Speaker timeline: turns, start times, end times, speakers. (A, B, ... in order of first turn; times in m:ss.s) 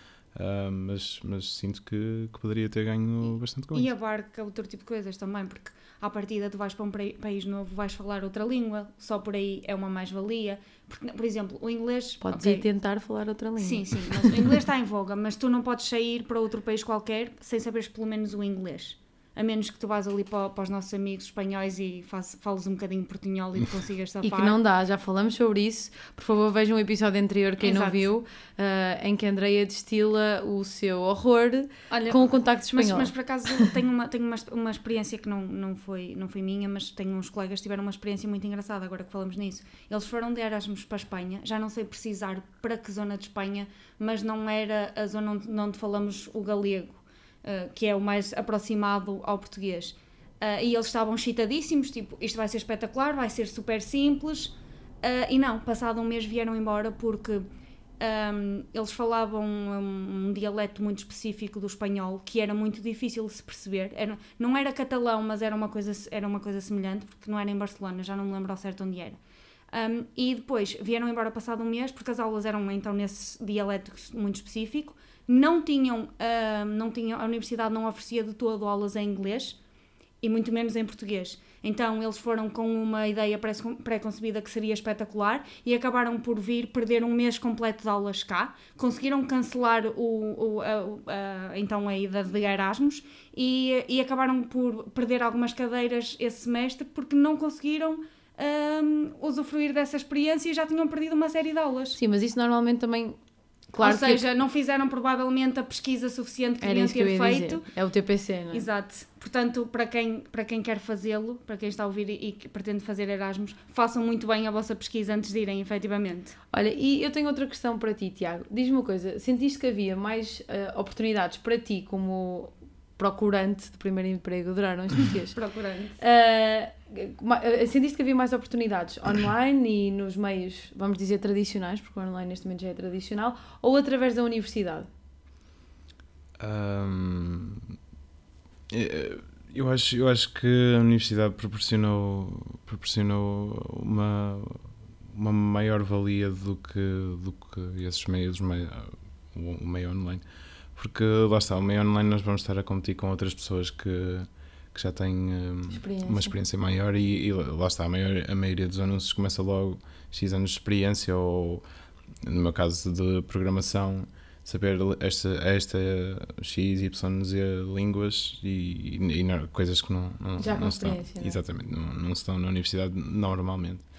0:00.4-0:03.9 A
0:03.7-0:12.6 B
0:12.2-0:14.4 C
0:13.6-0:24.6 B
0:24.2-0:33.7 C
0:27.6-0:28.0 B
0:31.9-0:57.4 B
0:58.0-1:09.2 B
1:09.7-1:19.6 B
1:20.2-1:42.0 B
1:42.0-1:43.2 C
1:43.7-1:44.2 C
1:43.8-1:47.6 B
1:46.6-1:48.7 C
1:48.5-1:56.4 B
1:56.5-2:05.4 C
2:05.3-2:06.0 B
2:06.0-2:14.9 C
2:16.4-2:17.8 A
2:18.7-2:30.2 A
2:30.8-2:41.6 A
2:35.7-2:36.3 C
2:42.2-2:53.8 A
2:50.4-2:51.4 C